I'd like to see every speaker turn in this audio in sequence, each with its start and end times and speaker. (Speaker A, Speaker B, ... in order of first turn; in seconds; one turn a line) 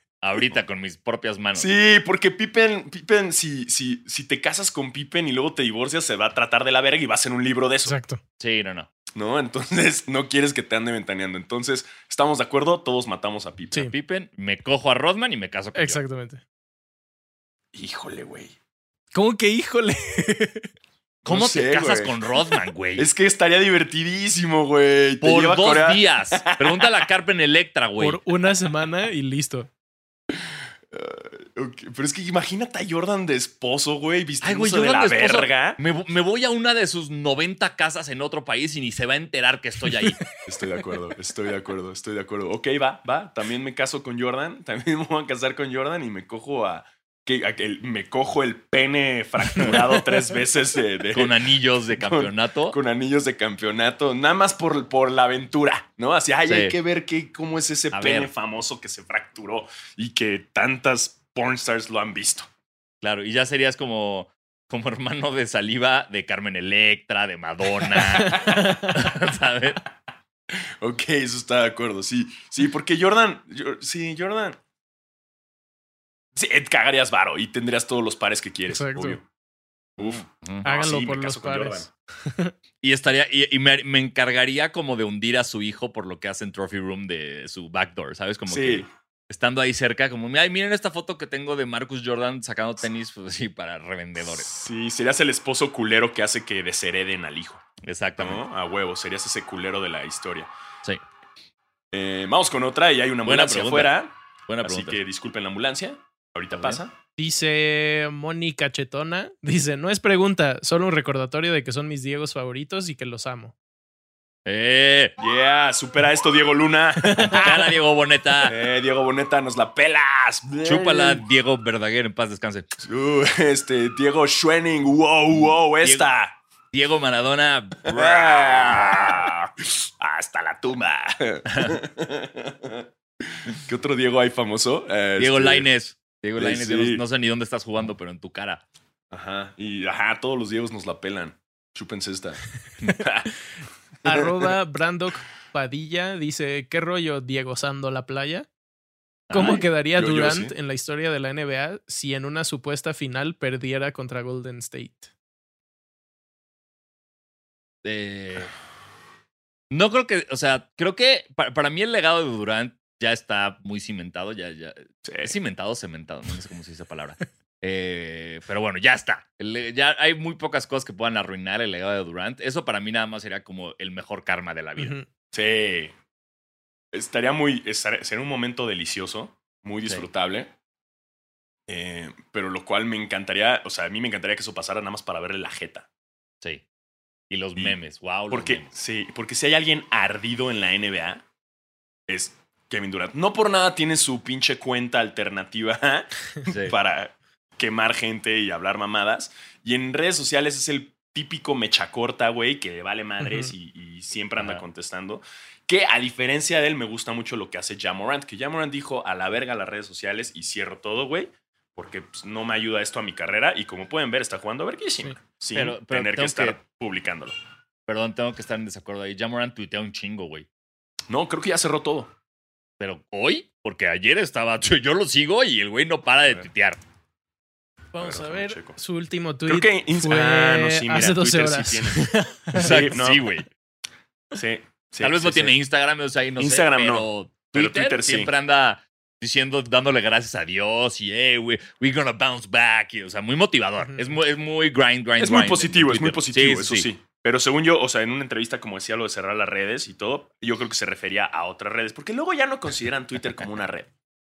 Speaker A: 0.2-1.7
Speaker B: 1.6-8.0
Speaker C: 7.8-8.2
Speaker A: 8.4-8.9
Speaker B: 9.1-13.9
Speaker A: 13.8-16.0
Speaker C: 15.7-16.4
Speaker B: 17.7-18.6
Speaker C: 19.1-20.7
Speaker B: 21.2-22.2
Speaker A: 21.2-23.1
Speaker B: 22.9-27.1
Speaker A: 25.2-28.2
Speaker C: 28.0-29.7
Speaker B: 30.9-35.8
Speaker A: 34.4-40.2
Speaker C: 39.9-40.4
Speaker B: 40.4-51.4
Speaker A: 49.5-49.8
Speaker C: 49.6-50.0
Speaker A: 51.1-52.8
Speaker B: 51.9-62.5
Speaker A: 56.5-56.8
Speaker A: 57.9-58.3
Speaker A: 63.0-69.8
Speaker B: 67.9-68.8
Speaker C: 68.2-68.9
Speaker B: 70.6-74.6
Speaker B: 76.3-79.2
Speaker C: 78.7-79.2
Speaker B: 80.0-81.9
Speaker A: 80.0-80.7
Speaker C: 80.6-82.5
Speaker A: 82.8-94.5
Speaker B: 88.5-88.9
Speaker B: 94.2-97.7
Speaker A: 97.8-98.4
Speaker B: 98.2-100.5
Speaker B: 101.9-106.9
Speaker A: 103.2-103.9
Speaker A: 104.5-105.0
Speaker C: 107.2-113.5
Speaker A: 114.4-115.1
Speaker B: 115.2-117.7
Speaker C: 117.0-117.5
Speaker A: 117.2-118.6
Speaker B: 118.4-121.2
Speaker A: 120.6-122.7
Speaker B: 122.8-126.4
Speaker A: 125.3-126.1
Speaker A: 126.7-129.3
Speaker B: 127.8-135.7
Speaker A: 131.5-131.8
Speaker A: 135.2-138.6
Speaker B: 136.4-137.0
Speaker B: 139.1-142.4
Speaker B: 142.9-143.3
Speaker B: 144.0-144.5
Speaker C: 144.0-148.5
Speaker A: 149.3-149.6
Speaker C: 149.3-155.1
Speaker B: 149.3-150.5
Speaker A: 157.8-158.5
Speaker A: 159.7-174.9
Speaker B: 165.0-165.3
Speaker C: 174.8-175.1
Speaker B: 175.3-175.9
Speaker B: 176.9-180.5
Speaker B: 181.7-185.9
Speaker A: 187.3-188.7
Speaker B: 188.3-191.2
Speaker B: 192.1-217.3
Speaker A: 196.5-196.8
Speaker C: 203.2-203.5
Speaker A: 204.4-204.6
Speaker A: 215.5-216.6
Speaker A: 217.9-220.5
Speaker B: 221.1-222.1
Speaker A: 222.8-226.8
Speaker C: 227.9-232.8
Speaker B: 228.0-228.8
Speaker B: 229.5-233.4
Speaker A: 232.5-233.4
Speaker B: 234.3-235.6
Speaker A: 235.0-246.9
Speaker B: 236.4-238.3
Speaker C: 243.8-244.1
Speaker B: 245.2-253.9